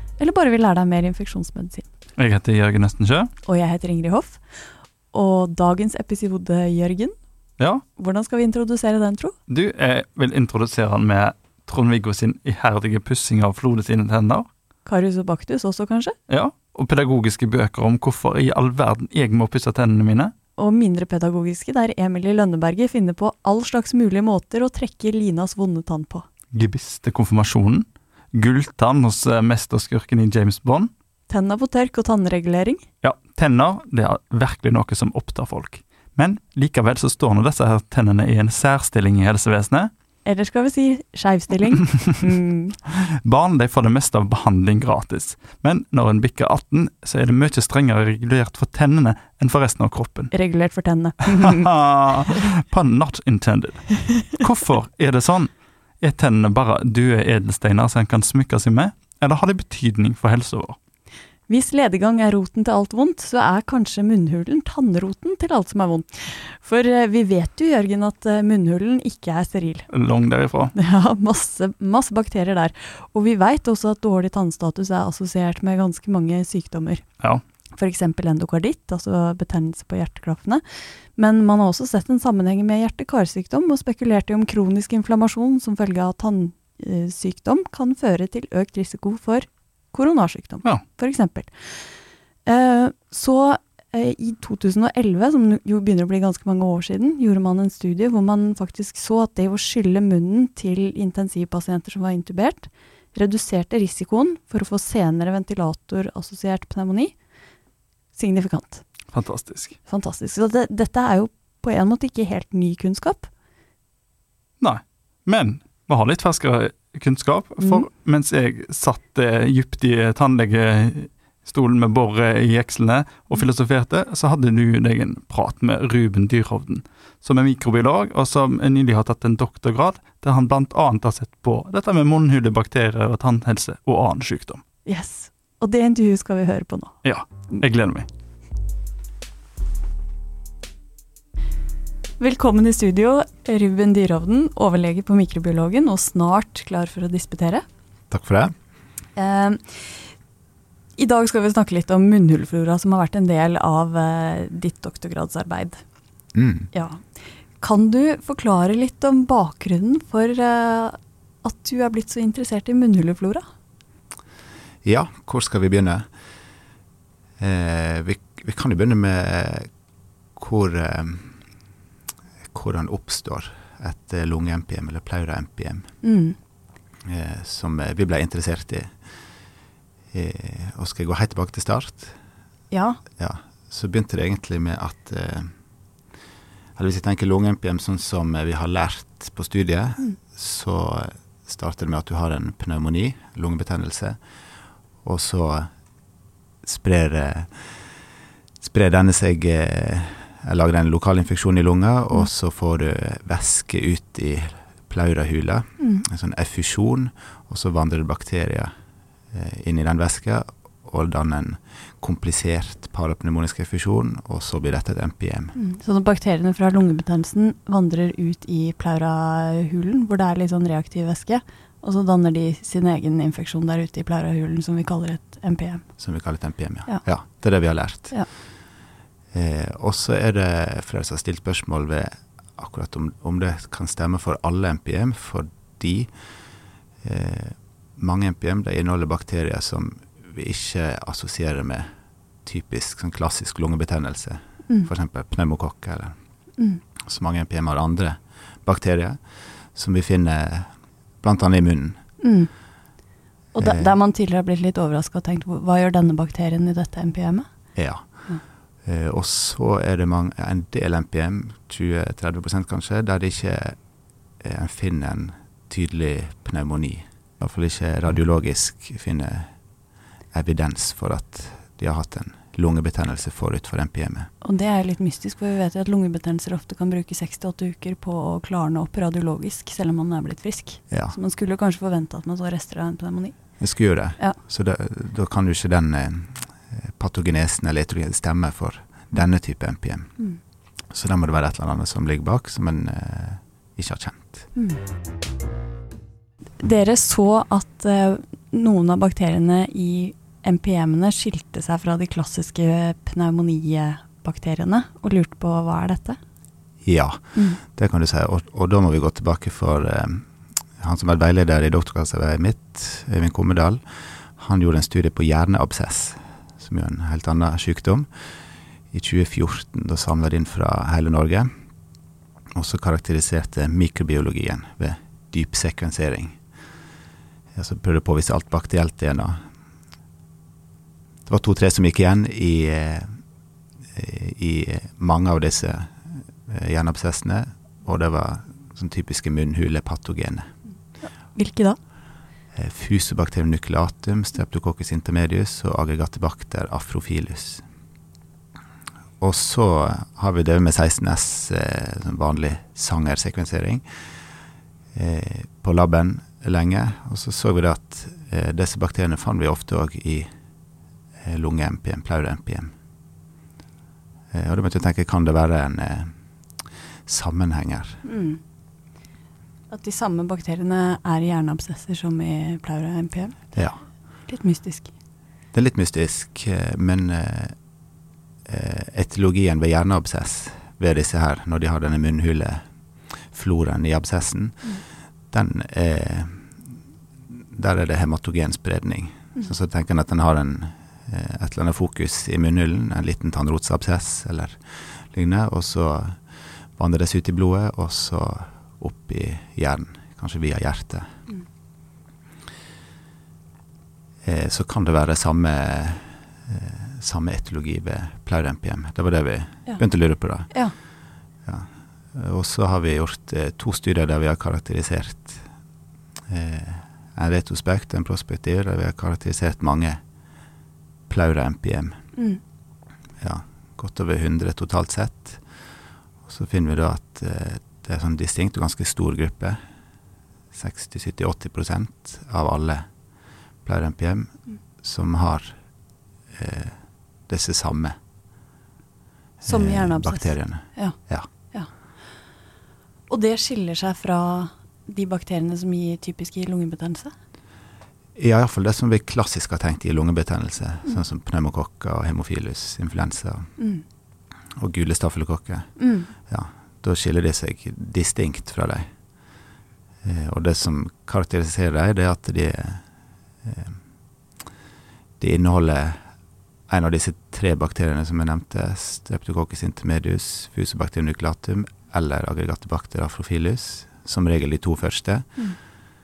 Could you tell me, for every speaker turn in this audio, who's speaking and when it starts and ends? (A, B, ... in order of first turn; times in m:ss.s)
0:00.2-0:01.9 A
0:02.2-0:03.3 B
0:03.4-0:07.2 A
0:07.6-0:07.8 B
0:08.0-0:09.4 A
0:09.5-0:14.5 B
0:14.9-0:16.2 A
0:16.3-0:20.3 B
0:20.6-0:26.3 A
0:26.5-0:30.9 B
0:31.3-0:32.8 A
0:33.0-0:39.9 B
0:40.2-0:42.8 A
0:42.9-0:50.3 B
0:50.3-0:51.7 A
0:51.3-1:00.8 B
1:01.5-1:09.9 A
1:09.9-1:10.7 B
1:10.7-1:17.1 A
1:17.8-1:47.2 A
1:48.1-1:48.9 A
1:49.1-1:49.8 B
1:49.9-1:53.3 A
1:54.6-2:14.6 B
1:57.6-1:57.8 A
2:14.9-2:17.0 A
2:17.0-2:18.1 B
2:22.2-2:27.6 A
2:28.1-2:28.6 C
2:29.2-2:30.2 A
2:31.0-2:35.8 A
2:36.3-2:36.7 C
2:36.7-2:43.4 A
2:44.8-2:46.1 C
2:47.4-2:49.7 C
2:50.3-2:51.4 C
2:52.5-2:55.9 C
2:56.0-2:56.4 A
2:57.0-2:59.1 C
3:00.1-3:02.2 C
3:02.7-3:03.0 A
3:03.2-3:05.6 C
3:06.8-3:14.2 C
3:15.0-3:15.7 C
3:16.6-3:18.0 C
3:18.6-3:28.7 C
3:25.8-3:26.0 A
3:29.3-3:35.6 C
3:35.6-3:46.0 A
3:46.0-3:48.6 C
3:46.9-3:47.3 A
3:49.3-4:06.2 C
4:07.0-4:12.1 C
4:12.2-4:12.7 A
4:13.5-4:18.4 A
4:13.6-4:13.9 C
4:17.8-4:34.3 C
4:34.4-4:43.6 A
4:40.9-4:41.2 C
4:43.6-4:50.3 C
4:50.9-4:54.5 C
4:54.6-4:54.8 A
4:56.6-5:06.2 A
5:06.8-5:21.5 C
5:07.4-5:07.6 A
5:22.5-5:26.4 C
5:27.5-5:29.5 C
5:31.3-5:33.2 C
5:33.9-5:40.5 C
5:41.0-5:41.8 A
5:42.5-5:47.6 C
5:49.2-6:00.3 C
6:01.2-6:02.7 C
6:04.3-6:08.0 C
6:08.0-6:08.4 A
6:09.7-6:14.9 A
6:13.6-6:13.8 C
6:15.5-6:17.6 C
6:18.4-6:26.7 C
6:27.3-6:41.2 C
6:44.2-6:50.9 C
6:50.4-6:50.7 A
6:51.4-6:55.5 C
6:56.3-7:00.0 C
7:01.1-7:02.0 C
7:02.2-7:02.4 A
7:03.2-7:05.7 C
7:06.2-7:09.6 C
7:10.5-7:13.0 C
7:13.6-7:18.0 C
7:19.4-7:21.3 C
7:19.4-7:22.3 A
7:23.1-7:27.1 A
7:28.2-7:33.6 C
7:33.6-7:33.8 A
7:34.6-7:38.9 C
7:35.8-7:36.1 A
7:40.0-7:42.9 C
7:43.4-7:43.8 C
7:45.2-7:55.7 C